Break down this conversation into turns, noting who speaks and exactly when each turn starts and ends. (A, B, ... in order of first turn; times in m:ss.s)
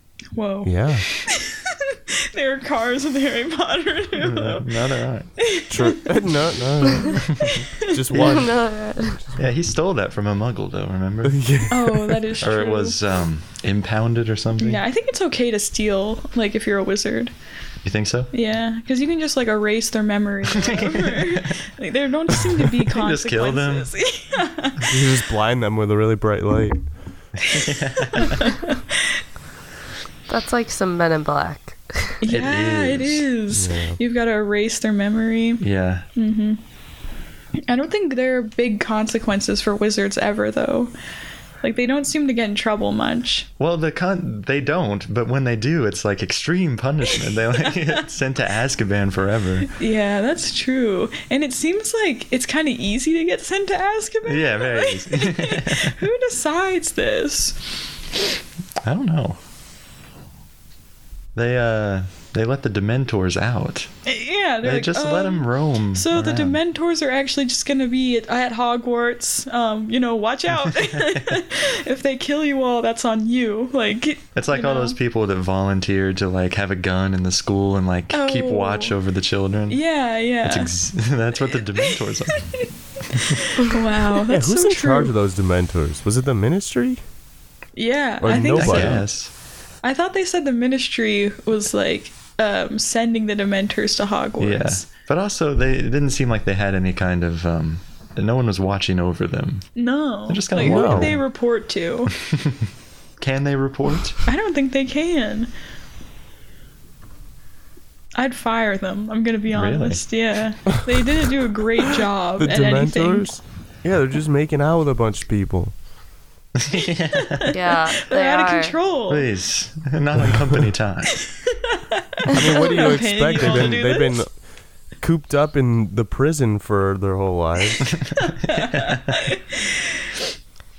0:00.4-0:06.2 A
0:00.6-0:01.1 B
0:04.2-0:05.3 C
0:05.7-0:09.5 B
0:06.8-0:08.0 A
0:07.2-0:08.4 C
0:08.1-0:09.2 D
0:09.4-0:11.6 C
0:11.2-0:12.2 B
0:11.7-0:13.0 A
0:12.4-0:14.8 C
0:14.6-0:17.3 A
0:17.8-0:18.3 C
0:18.3-0:24.9 A
0:20.6-0:21.6 C
0:22.8-0:23.9 C
0:24.8-0:26.8 B
0:27.4-0:28.6 C
0:27.5-0:29.1 A
0:30.3-0:32.2 D
0:32.2-0:35.6 A
0:32.3-0:33.2 C
0:33.5-0:34.0 B
0:35.6-0:36.1 C
0:36.2-0:36.6 A
0:37.7-0:40.9 A
0:41.6-0:43.5 A
0:43.6-0:49.7 C
0:49.7-0:57.8 A
0:54.2-0:56.0 C
0:58.8-0:59.4 C
1:01.4-1:03.9 C
1:04.1-1:15.0 A
1:04.6-1:06.6 C
1:10.7-1:11.4 C
1:14.4-1:19.8 C
1:18.1-1:19.0 A
1:19.7-1:20.7 A
1:20.4-1:23.5 C
1:21.8-1:22.6 A
1:23.2-1:25.1 A
1:24.3-1:27.0 B
1:27.8-1:29.1 A
1:28.2-1:29.0 B
1:28.5-1:29.3 C
1:29.8-1:34.9 A
1:34.4-1:39.7 C
1:39.8-1:42.1 A
1:40.3-1:41.2 C
1:40.6-1:41.2 B
1:42.3-1:42.6 C
1:43.2-1:44.2 C
1:44.2-1:45.5 A
1:48.2-1:53.3 A
1:49.5-1:50.0 C
1:52.4-1:55.7 B
1:56.6-1:57.5 C
1:57.2-1:59.3 A
1:57.5-1:58.8 D
1:59.1-2:01.2 C
2:01.2-2:04.2 A
2:02.3-2:04.3 B
2:05.0-2:08.0 B
2:08.3-2:10.2 A
2:08.5-2:09.3 C